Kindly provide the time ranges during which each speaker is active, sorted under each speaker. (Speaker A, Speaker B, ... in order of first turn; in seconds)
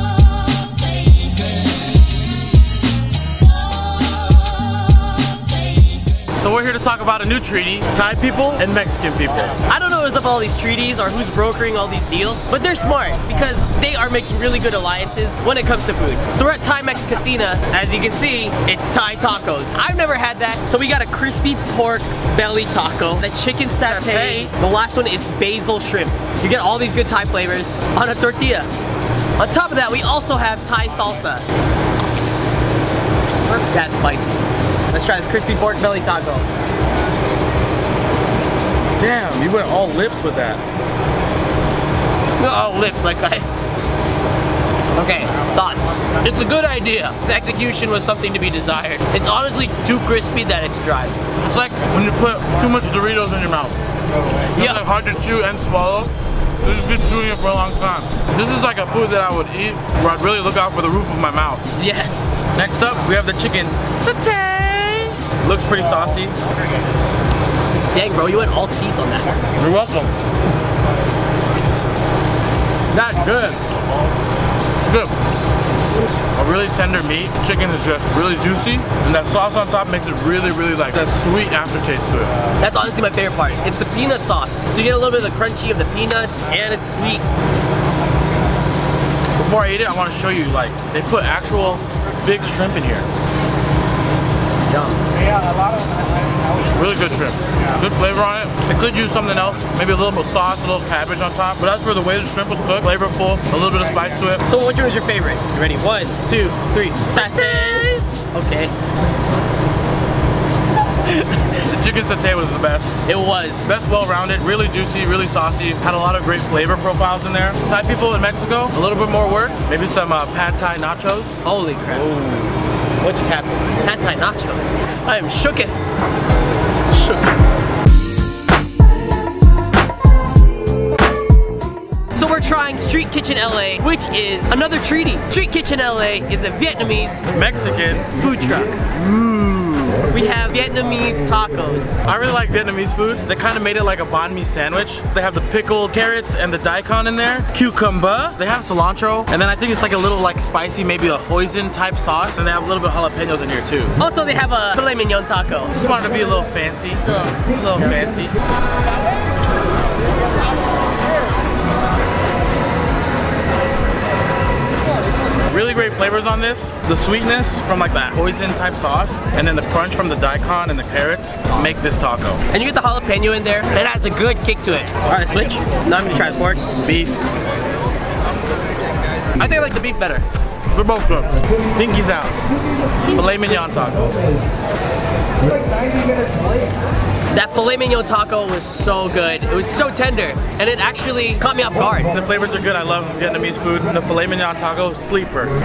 Speaker A: 6.3-9.6, 23.8-24.5, 39.0-40.6, 51.4-53.8, 54.5-61.6, 62.5-66.3, 69.5-70.1, 72.9-73.6, 74.8-75.1, 76.3-82.3, 89.3-93.0, 96.7-104.4, 107.1-108.0, 111.2-113.0, 113.7-122.5, 137.3-138.1, 138.9-140.1, 142.0-154.0, 155.7-158.3, 165.5-172.4, 176.8-177.2, 180.7-182.3, 183.1-184.1, 192.0-195.5
Speaker B: 9.7-28.7, 29.4-31.4, 33.5-36.5, 42.4-43.5, 45.0-51.2, 54.5-54.8, 61.8-62.4, 67.9-69.4, 82.6-87.3, 94.7-95.0, 104.5-108.7, 113.0-113.7, 121.4-122.1, 123.0-125.7, 126.9-127.3, 132.1-137.2, 138.1-138.8, 140.1-142.0, 154.0-155.7, 172.5-176.6, 179.4-180.2, 187.3-192.1